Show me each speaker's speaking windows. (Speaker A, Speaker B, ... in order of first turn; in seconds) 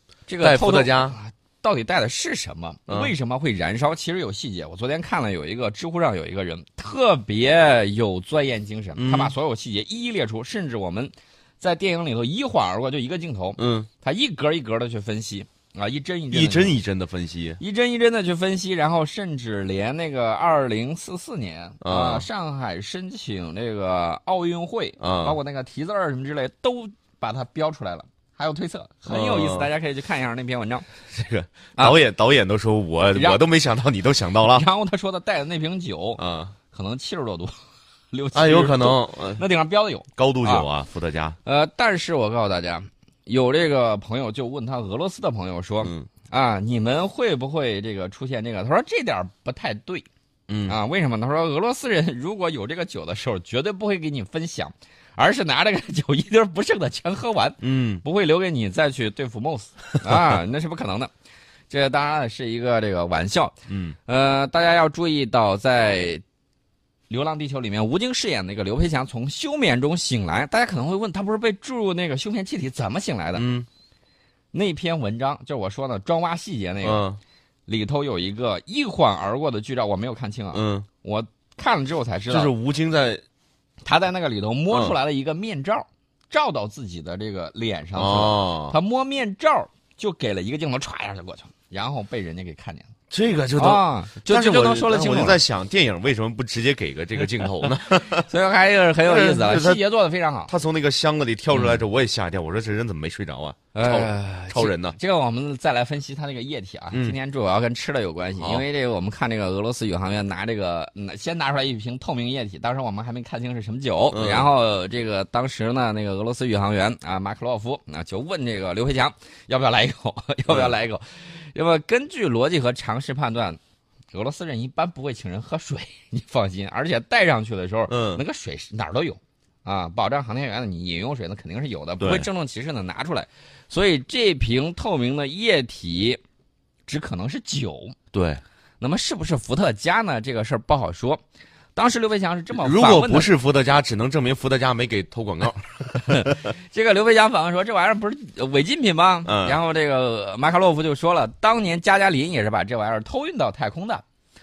Speaker A: 0.3-16.8, 17.6-30.9, 33.1-33.4, 34.5-36.2, 36.7-37.6, 38.1-40.7, 41.5-50.1, 50.7-61.1, 61.7-63.5, 64.1-66.2, 67.1-73.5, 74.5-77.0, 77.7-82.5, 83.8-92.9, 93.6-95.4, 97.6-100.5, 101.5-101.8, 103.8-123.6, 124.1-136.2, 136.9-137.9, 138.8-141.2, 141.8-143.3, 146.1-154.0
Speaker B: 0.4-1.2, 9.0-9.3, 13.6-13.9, 16.3-17.6, 21.8-22.3, 25.0-25.4, 29.1-29.7, 31.1-34.6, 36.2-36.5, 38.3-39.4, 40.2-41.4, 50.5-50.8, 57.6-58.0, 63.7-64.0, 73.3-73.7, 76.8-77.2, 80.5-80.9, 82.3-83.2, 88.0-88.8, 93.1-98.3, 99.0-99.8, 100.5-105.0, 108.4-108.7, 114.1-114.5, 127.9-128.2, 132.0-132.3, 138.1-138.4, 142.6-146.4, 149.3-149.6